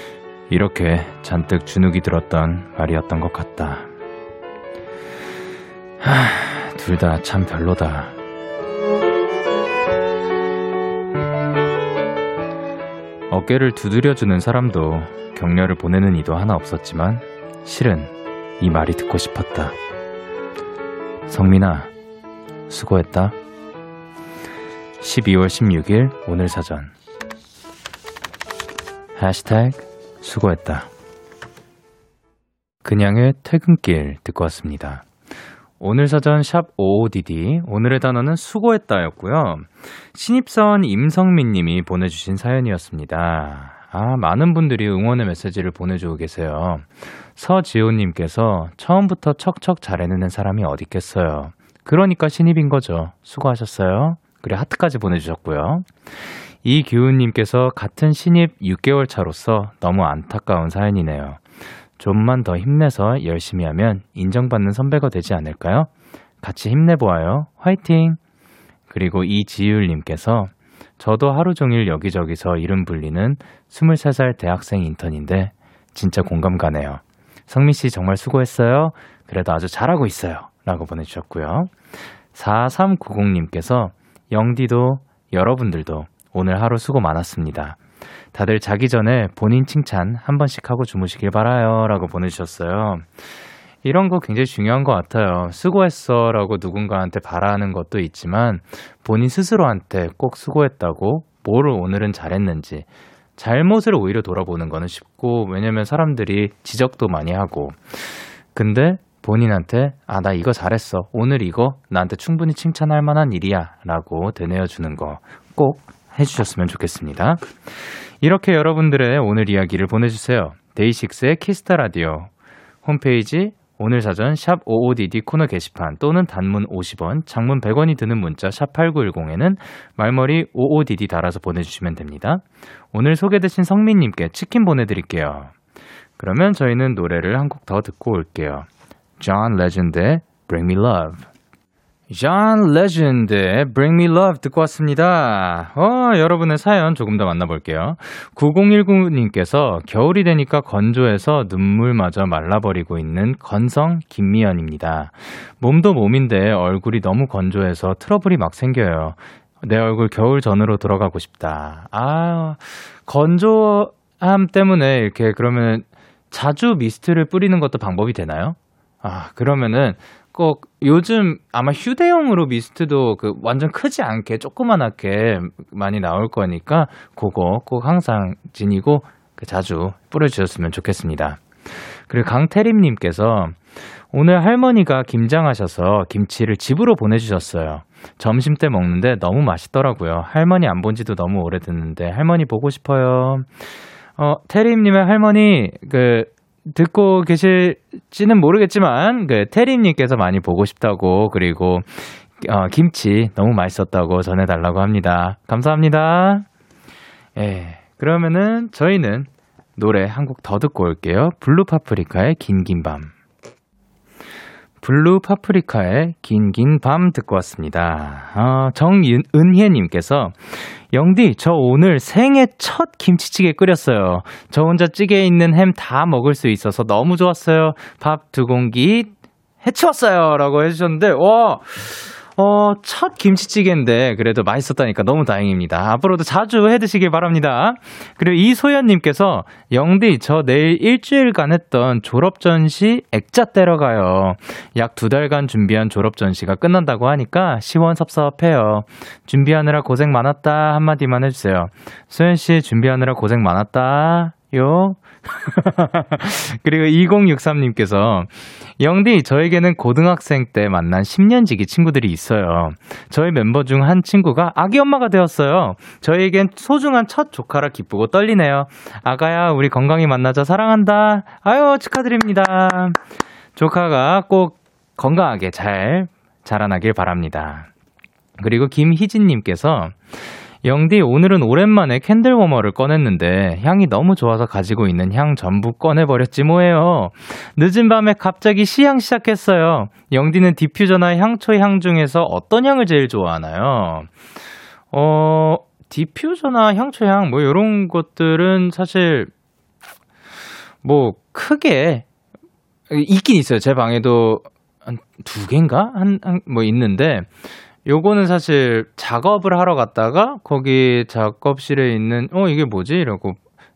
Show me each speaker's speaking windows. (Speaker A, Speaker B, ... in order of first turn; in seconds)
Speaker A: 0.5-3.9, 6.0-8.1, 13.3-19.7, 21.3-21.9, 22.7-23.3, 25.0-26.9, 29.2-30.9, 32.8-35.0, 35.8-55.9, 56.6-61.4, 62.0-65.9, 66.4-68.2, 68.9-81.7, 82.3-87.8, 88.3-93.0, 93.8-102.8, 103.4-117.5, 118.2-122.3, 122.8-135.5, 136.2-138.7, 139.2-141.2, 142.1-181.4, 182.1-183.6, 184.1-193.5, 194.2-206.4, 207.3-213.1, 214.8-229.1, 229.6-273.0, 273.6-277.7, 278.4-294.1, 294.9-299.3, 300.8-302.0, 302.9-307.3, 307.9-313.4